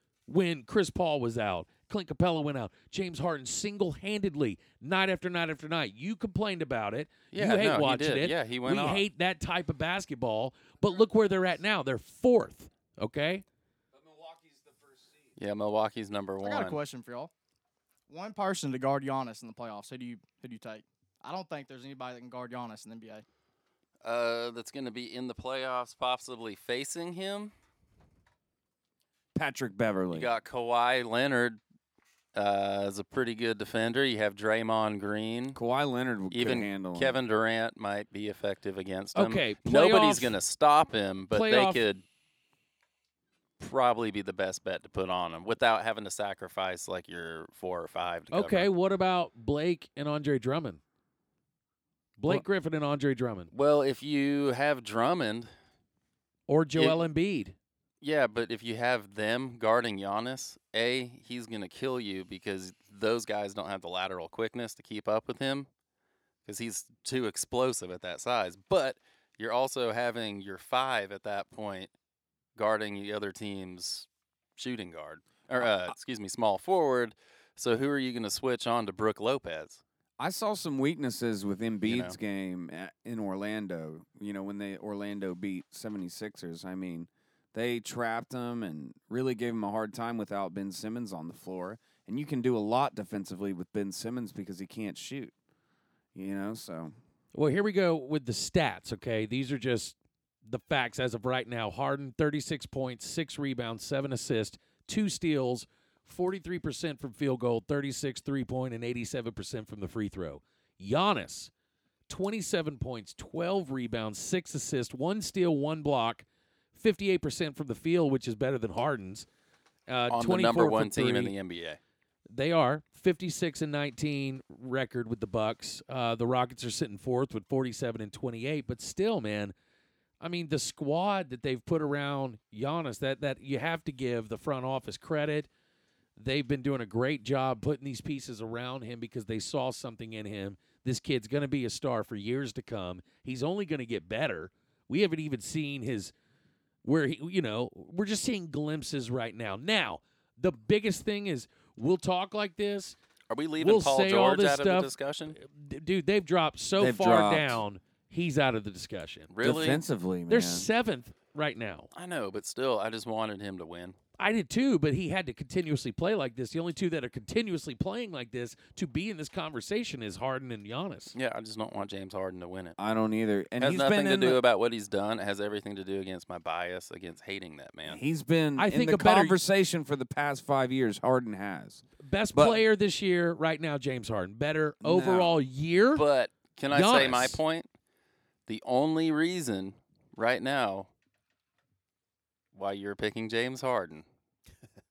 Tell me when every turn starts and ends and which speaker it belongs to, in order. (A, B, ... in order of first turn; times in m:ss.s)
0:00.3-0:13.4 A
0:07.3-0:09.0 B
0:14.0-0:15.2 C
0:15.4-0:16.8 B
0:16.4-0:17.3 D
0:18.1-0:23.2 D
0:24.0-0:27.5 B
0:29.3-0:30.3 C
0:30.1-0:31.6 B
0:32.3-0:35.6 B
0:35.5-0:37.2 C
0:36.3-0:42.0 B
0:39.1-0:40.3 A
0:41.3-0:41.8 A
0:43.6-0:48.7 B
0:48.3-0:50.8 A
0:52.2-0:53.5 A
0:53.5-0:55.5 B
0:56.5-0:57.5 A
0:58.0-1:05.7 B
1:06.4-1:11.9 B
1:12.6-1:14.0 B
1:14.6-1:19.8 B
1:20.2-1:35.3 C
1:21.8-1:22.2 B
1:36.1-1:36.9 C
1:37.3-1:51.5 A
1:52.1-1:59.2 A
1:59.9-2:01.3 A
2:00.1-2:01.8 B
2:02.3-2:09.5 A
2:10.2-2:15.5 A
2:16.2-2:26.1 A
2:26.8-2:33.0 A
2:33.3-2:35.4 B
2:33.6-2:39.3 A
2:36.8-2:37.6 C
2:39.3-2:39.8 B
2:39.4-2:40.7 C
2:40.3-2:41.9 A
2:41.9-2:44.0 B
2:44.2-2:51.1 A
2:51.1-2:52.8 B
2:52.8-2:54.4 C
2:53.6-2:58.0 B
2:57.8-3:02.6 C
2:58.6-2:59.4 A
3:02.0-3:06.0 A
3:04.8-3:05.4 C
3:05.9-3:07.7 B
3:06.7-3:07.4 A
3:08.5-3:10.9 B
3:12.5-3:14.0 B